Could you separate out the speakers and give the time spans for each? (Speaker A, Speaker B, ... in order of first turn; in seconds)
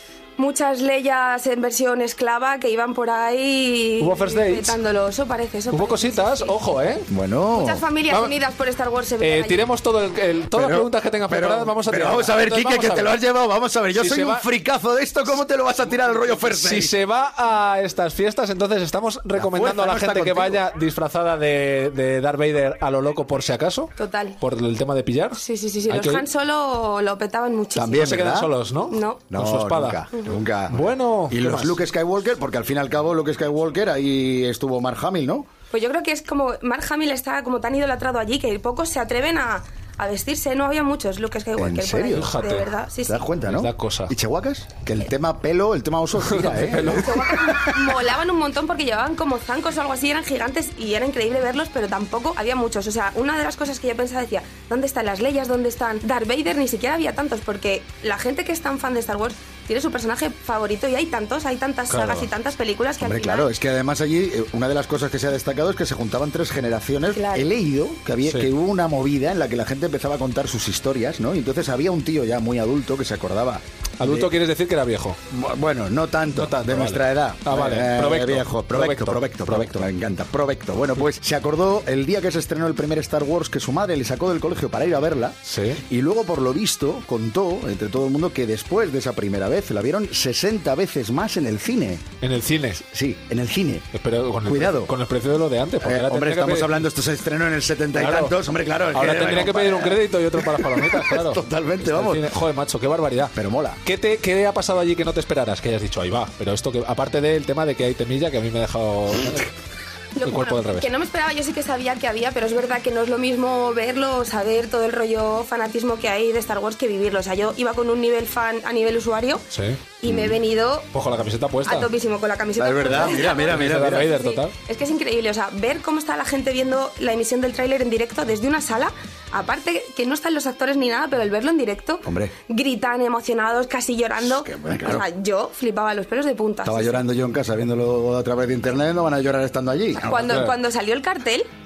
Speaker A: 0.4-6.5, 7.5-9.6, 24.0-24.4, 25.4-28.1, 28.9-29.2, 30.1-30.4, 35.7-43.2, 46.8-63.5, 67.1-67.5, 110.2-119.4, 120.0-120.9, 121.6-137.0, 139.9-141.4
Speaker B: 4.0-4.8, 5.7-7.1, 9.2-13.2, 13.9-14.4, 16.4-26.2, 27.9-30.0, 30.7-31.8, 42.1-42.7, 43.5-44.1, 46.1-47.8, 61.9-62.3, 74.0-75.2, 76.3-79.8, 85.5-85.8, 92.2-92.8, 93.9-96.8, 97.9-98.3, 98.9-103.3, 103.8-109.5, 110.2-110.9, 119.5-119.8, 120.9-121.9, 122.9-124.5, 140.1-140.5
Speaker C: 7.1-7.8, 10.5-16.9, 19.3-20.6, 27.7-28.5, 29.3-35.5, 41.6-42.3, 43.1-47.3, 63.0-74.3, 75.3-92.0, 92.8-93.9, 94.5-94.9, 95.8-102.3, 103.3-103.8, 120.0-120.4, 122.6-124.1, 132.0-132.3, 134.2-135.0, 136.6-140.2